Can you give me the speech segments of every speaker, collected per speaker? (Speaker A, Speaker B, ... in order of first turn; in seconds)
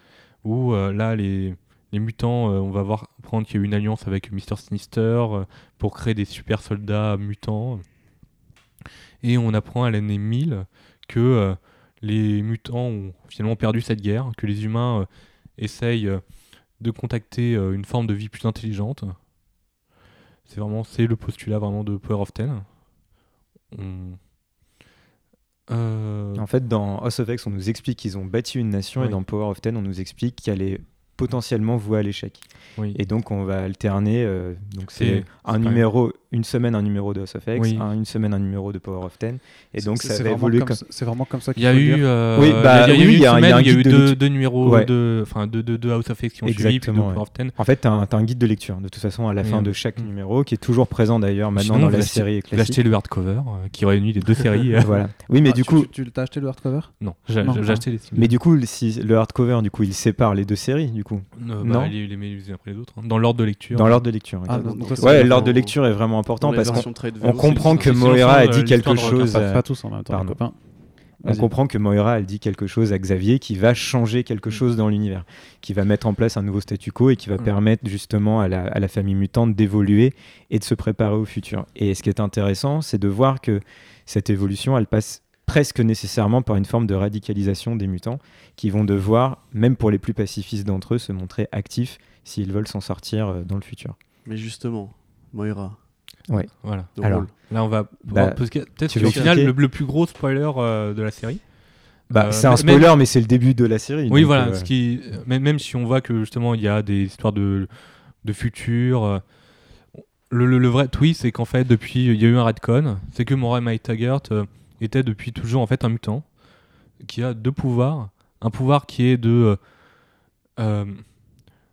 Speaker A: 0.4-7.8, 9.2-19.1, 20.4-22.7, 23.7-24.2, 25.7-26.4, 34.9-35.9, 37.5-37.8, 41.5-47.5, 49.4-50.0, 51.5-55.0, 57.0-58.3, 61.4-64.0, 67.5-69.6, 96.6-103.0, 104.1-109.2, 109.9-116.4, 117.0-119.8, 120.5-121.2
Speaker B: 26.4-40.8, 42.3-44.9, 46.4-52.8, 54.8-55.9, 57.7-61.9, 63.7-70.4, 71.2-94.0, 96.3-97.5, 98.0-99.5, 102.1-104.7
Speaker C: 39.8-42.0, 55.4-57.8, 64.5-65.6, 69.0-70.6, 71.2-71.5
Speaker D: 64.5-65.8, 66.4-68.0, 94.2-95.8, 97.0-97.3, 99.0-99.3